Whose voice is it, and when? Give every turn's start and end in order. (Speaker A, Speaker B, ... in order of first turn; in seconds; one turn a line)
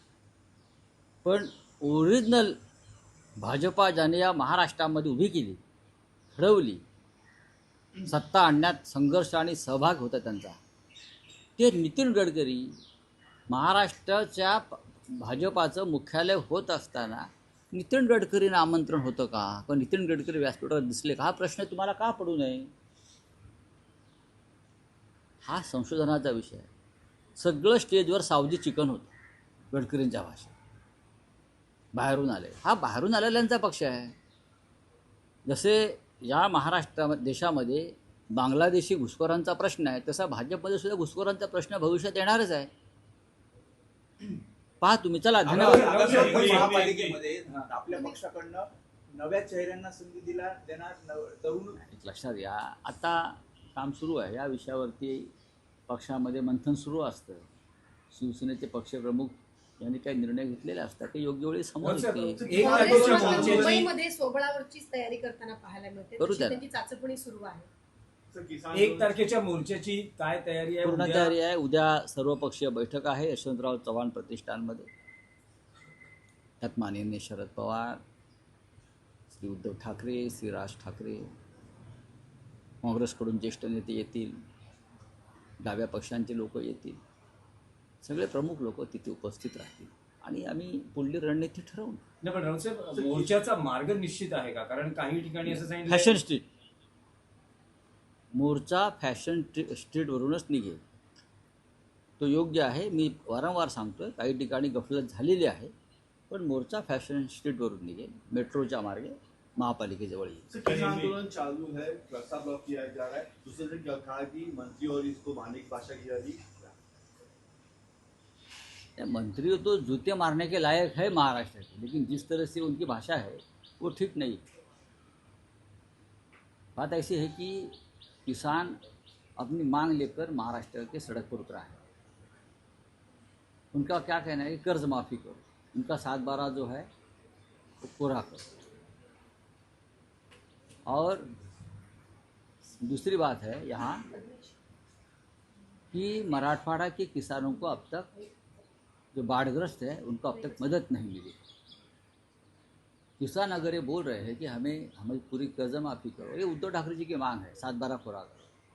Speaker A: 1.2-2.6
Speaker A: 3.4-5.6
Speaker A: 6.3-6.8
Speaker A: 8.0-10.6
Speaker A: 11.6-12.7
Speaker A: 13.5-22.7
Speaker A: 25.4-26.7
Speaker A: 27.4-29.1
Speaker A: 29.7-30.5
Speaker A: 31.9-34.1
Speaker A: 35.5-42.7
Speaker A: 44.8-46.1
Speaker B: 45.4-47.7
Speaker C: 45.5-51.8
Speaker D: 46.2-46.8
Speaker A: 51.8-55.3
Speaker A: 55.9-57.4
Speaker A: 58.1-63.5
Speaker B: 61.8-63.9
Speaker D: 62.5-63.9
Speaker E: 62.5-67.7
Speaker A: 66.2-66.7
Speaker D: 68.3-69.2
Speaker B: 68.7-71.3
Speaker A: 70.8-74.9
Speaker A: 76.6-78.0
Speaker A: 79.3-81.3
Speaker A: 82.8-84.4
Speaker A: 85.6-87.0
Speaker A: 88.0-92.0
Speaker B: 92.2-96.2
Speaker A: 95.5-96.5
Speaker A: 98.3-100.8
Speaker A: 102.2-105.7
Speaker A: 106.3-110.5
Speaker D: 110.5-116.7
Speaker B: 110.6-111.1
Speaker A: 119.0-124.4
Speaker A: 126.8-127.7
Speaker A: 128.2-128.8
Speaker A: 129.4-131.8
Speaker A: 133.7-136.9
Speaker A: 137.8-138.4
Speaker A: 140.9-141.2
Speaker A: 142.8-144.1
Speaker E: 144.2-144.5
Speaker A: 145.9-148.1
Speaker E: 148.1-148.4
Speaker A: 149.1-151.4
Speaker E: 150.3-150.7
Speaker A: 153.2-158.4